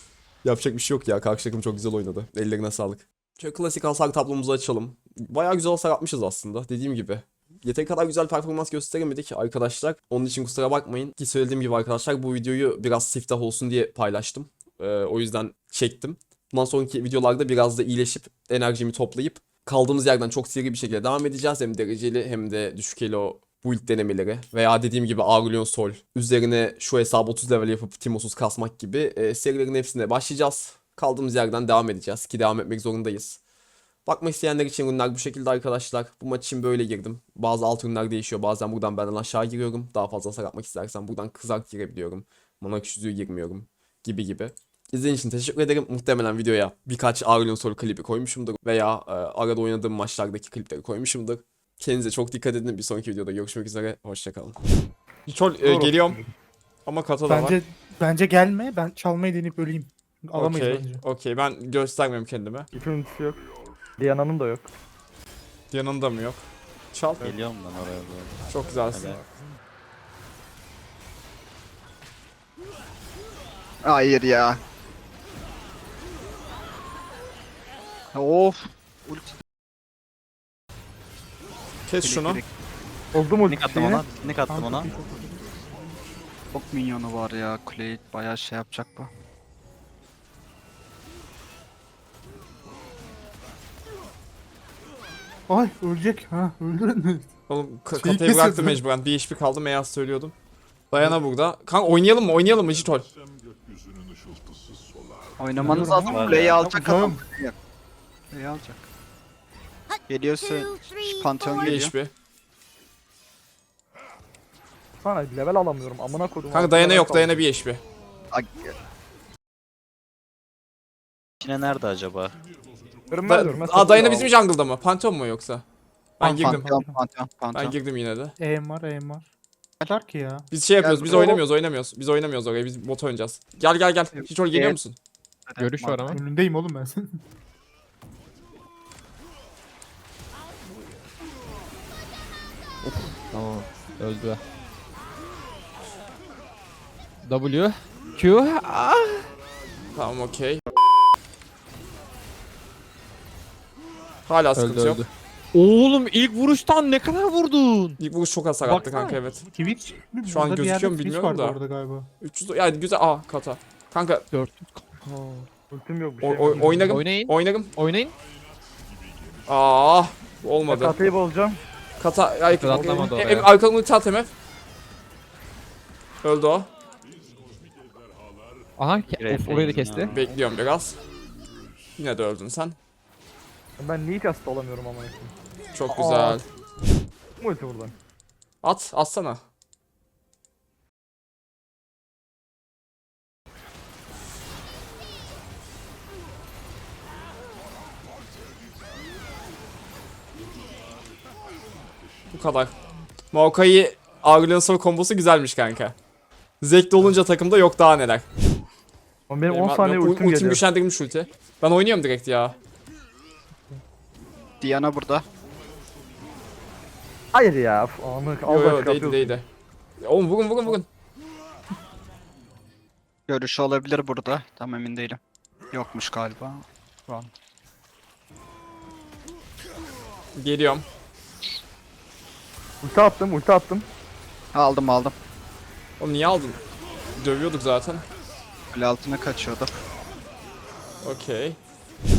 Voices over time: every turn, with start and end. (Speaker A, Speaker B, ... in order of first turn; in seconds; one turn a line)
Speaker A: 0.4-33.4
Speaker A: 34.1-54.6
Speaker A: 55.3-56.2
Speaker B: 55.6-56.3
Speaker A: 56.9-57.6
Speaker B: 57.3-61.0
Speaker A: 60.4-62.7
Speaker C: 62.7-63.4
Speaker C: 64.0-64.7
Speaker A: 65.7-67.3
Speaker D: 67.2-69.2
Speaker A: 68.5-69.2
Speaker E: 73.8-74.6
Speaker E: 78.1-79.4
Speaker A: 81.9-82.4
Speaker E: 82.0-82.5
Speaker C: 83.1-84.0
Speaker D: 83.5-84.9
Speaker B: 84.5-85.5
Speaker E: 86.5-89.1
Speaker B: 95.5-97.3
Speaker A: 97.5-100.3
Speaker B: 97.9-98.8
Speaker A: 100.9-103.1
Speaker E: 105.4-107.6
Speaker B: 105.6-107.2
Speaker D: 105.7-106.7
Speaker E: 108.3-108.9
Speaker E: 110.1-111.9
Speaker A: 111.6-112.1
Speaker C: 115.0-117.4
Speaker A: 116.5-117.8
Speaker E: 118.3-118.8
Speaker D: 121.4-122.3
Speaker C: 123.1-124.3
Speaker A: 123.3-125.6
Speaker A: 126.2-126.6
Speaker B: 126.2-127.0
Speaker E: 126.2-127.8
Speaker A: 127.5-128.3
Speaker B: 128.4-129.3
Speaker B: 129.9-130.5
Speaker A: 130.5-135.0
Speaker E: 130.8-131.4
Speaker E: 134.2-134.8
Speaker E: 135.5-136.2
Speaker F: 135.6-136.2
Speaker B: 136.1-137.2
Speaker F: 142.9-144.4
Speaker F: 147.2-149.3
Speaker A: 149.9-150.6
Speaker A: 154.3-155.1
Speaker F: 154.6-158.0
Speaker A: 158.0-159.4
Speaker B: 158.6-162.1
Speaker A: 160.3-161.6
Speaker A: 162.2-164.3
Speaker F: 164.3-164.7
Speaker B: 165.1-165.5
Speaker C: 165.7-167.0
Speaker A: 166.2-167.7
Speaker B: 166.5-166.9
Speaker F: 166.9-168.1
Speaker A: 169.5-171.1
Speaker C: 170.7-171.6
Speaker A: 172.0-174.3
Speaker F: 172.5-173.5
Speaker A: 176.2-176.7
Speaker F: 178.8-180.2
Speaker D: 179.1-180.2
Speaker A: 180.1-181.0
Speaker A: 182.0-182.8
Speaker C: 183.8-185.3
Speaker A: 185.7-186.4
Speaker C: 185.9-186.4
Speaker C: 187.4-187.9
Speaker A: 188.6-189.4
Speaker A: 202.3-202.7
Speaker A: 203.3-206.0
Speaker A: 206.6-208.3
Speaker C: 209.3-210.6
Speaker A: 209.5-212.6
Speaker E: 214.6-215.2
Speaker C: 217.3-219.4
Speaker A: 218.5-219.5
Speaker A: 220.0-220.9
Speaker E: 223.3-225.2
Speaker E: 225.7-227.3
Speaker A: 230.3-230.9
Speaker C: 232.8-233.9
Speaker E: 234.5-235.2
Speaker A: 236.0-236.6
Speaker A: 237.2-238.1
Speaker E: 238.7-239.7
Speaker A: 241.0-241.6